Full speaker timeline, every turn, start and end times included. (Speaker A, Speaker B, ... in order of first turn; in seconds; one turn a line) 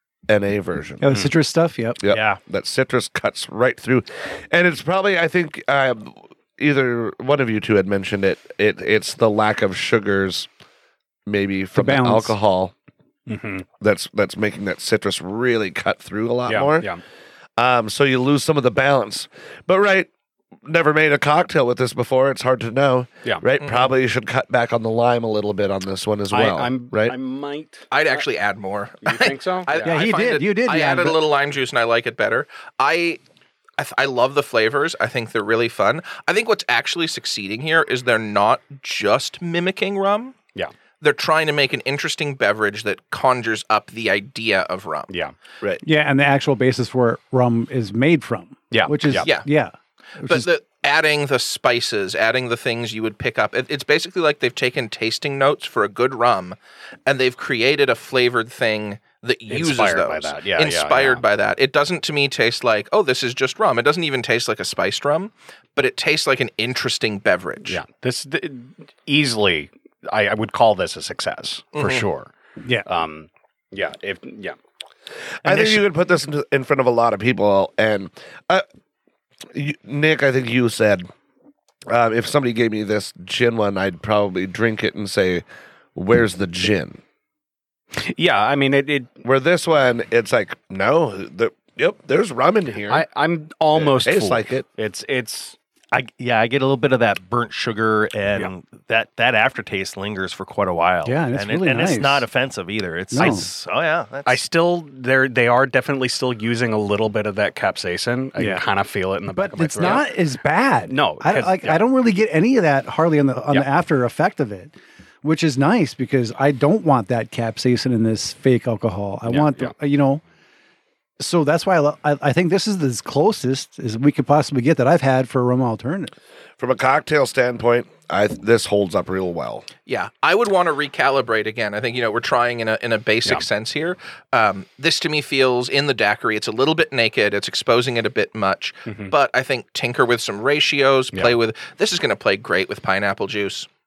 Speaker A: 0.3-1.0
Speaker B: 1.0-2.0
Speaker A: 2.0-10.5
Speaker C: 2.1-2.4
Speaker A: 11.2-12.7
Speaker B: 11.7-12.3
Speaker D: 13.3-13.7
Speaker A: 13.8-16.9
Speaker D: 16.5-17.0
Speaker A: 17.6-20.1
Speaker A: 20.6-27.1
Speaker E: 23.6-23.9
Speaker D: 26.3-28.2
Speaker E: 27.9-33.2
Speaker D: 29.0-30.0
Speaker B: 29.8-31.2
Speaker E: 33.8-40.4
Speaker E: 41.0-45.1
Speaker D: 45.1-45.3
Speaker B: 45.8-50.5
Speaker D: 48.7-49.3
Speaker E: 50.2-67.8
Speaker D: 59.5-61.2
Speaker D: 67.6-72.3
Speaker E: 71.7-72.0
Speaker D: 72.8-74.5
Speaker A: 75.4-78.6
Speaker A: 79.5-81.1
Speaker A: 81.9-85.4
Speaker A: 85.9-87.0
Speaker D: 88.0-89.1
Speaker A: 89.2-93.0
Speaker D: 92.9-95.5
Speaker A: 93.7-94.6
Speaker C: 95.9-104.4
Speaker B: 101.0-102.2
Speaker B: 103.1-103.5
Speaker D: 104.2-110.1
Speaker B: 108.4-108.6
Speaker B: 109.3-120.2
Speaker D: 110.9-111.8
Speaker D: 119.3-119.7
Speaker B: 121.2-126.1
Speaker A: 126.6-129.6
Speaker E: 129.9-143.7